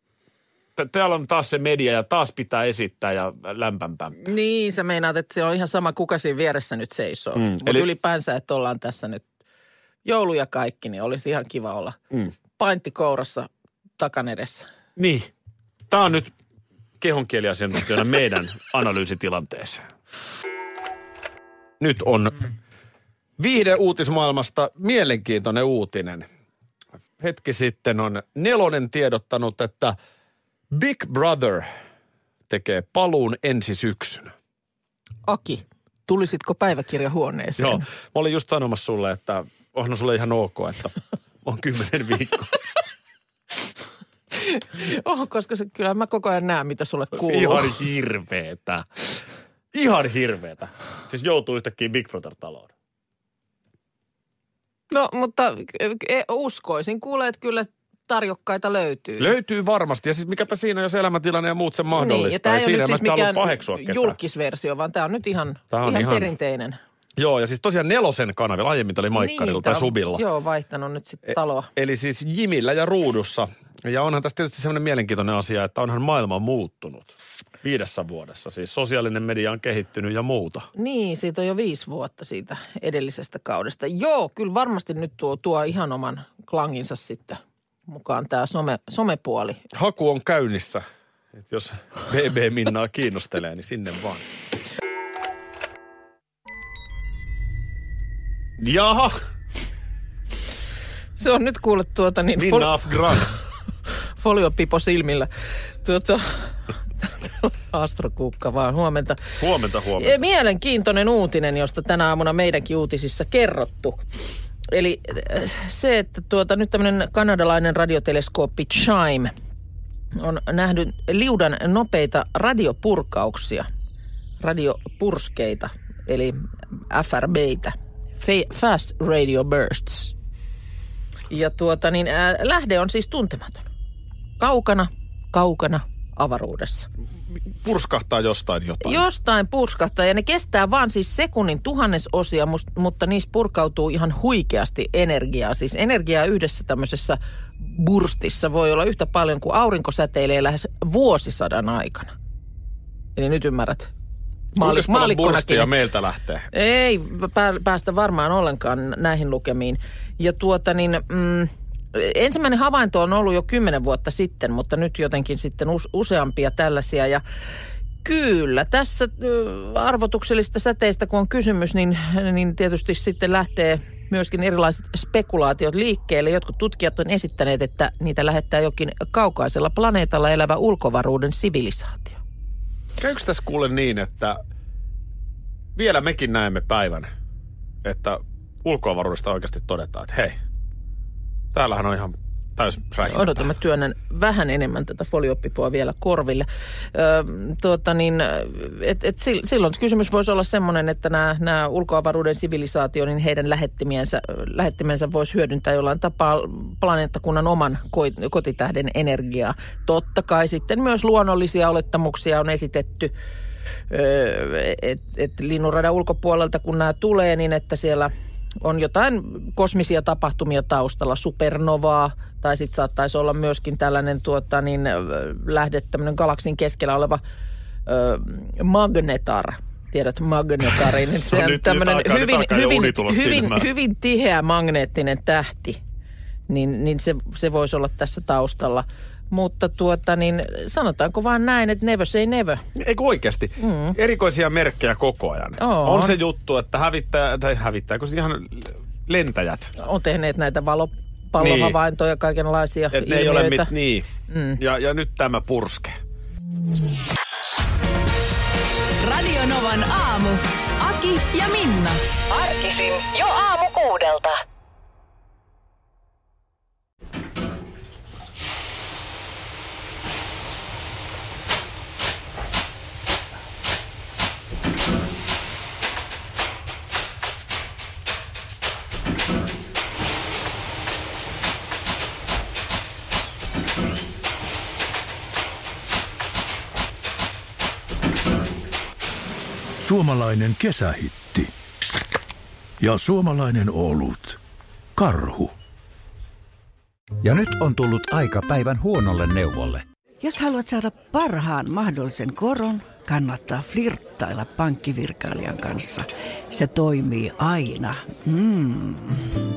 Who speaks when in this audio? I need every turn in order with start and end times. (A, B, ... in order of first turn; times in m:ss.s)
0:00.8-0:04.2 A
0:04.2-0:09.2 B
0:07.4-0:07.9 A
0:10.0-0:12.0 B
0:12.6-0:14.6 B
0:15.0-0:15.3 A
0:15.9-0:16.3 A
0:17.0-0:19.9 A
0:21.8-0:22.5 A
0:23.4-0:26.2 A
0:27.2-0:29.9 A
0:30.7-0:31.6 A
0:32.5-0:34.3 A
0:35.2-0:37.8 B
0:37.6-0:42.6 A
0:44.3-0:47.7 B
0:47.1-0:48.8 A
0:49.7-0:52.7 A
0:54.9-0:59.3 B
0:59.2-1:04.2 A
1:01.9-1:06.8 B
1:05.7-1:06.3 A
1:07.2-1:10.2 A
1:09.1-1:11.7 B
1:11.3-1:20.7 A
1:20.8-1:29.6 B
1:29.7-1:30.8 A
1:31.3-1:34.2 A
1:38.6-1:39.1 A
1:41.2-1:43.2 B
1:42.4-1:43.3 A
1:44.2-1:45.3 B
1:45.8-1:49.3 B
1:49.4-1:50.2 A
1:50.0-1:54.2 B
1:54.7-1:59.3 B
2:00.2-2:03.6 B
2:04.4-2:10.1 B
2:11.3-2:13.7 B
2:14.4-2:16.9 B
2:17.5-2:19.0 A
2:18.8-2:32.1 B
2:33.1-2:33.9 B
2:34.6-2:35.7 B
2:34.6-2:36.5 A
2:36.5-2:47.2 B
2:48.0-3:02.2 B
3:03.0-3:04.4 A
3:05.8-3:07.1 A
3:07.8-3:10.4 A
3:11.5-3:13.5 A
3:13.0-3:33.1 B
3:33.9-3:47.2 B
3:47.9-3:55.8 B
3:51.3-3:53.7 A
3:56.5-4:02.6 B
4:02.8-4:09.7 A
4:03.6-4:04.0 B
4:05.6-4:06.2 B
4:09.8-4:13.7 B
4:11.4-4:11.8 A
4:12.9-4:14.0 A
4:14.3-4:14.6 B
4:14.6-4:16.0 A
4:19.0-4:22.0 C
4:49.8-4:51.5 D
4:52.8-4:54.4 D
4:55.0-4:55.5 D
4:57.2-4:59.8 E
5:00.2-5:09.2 F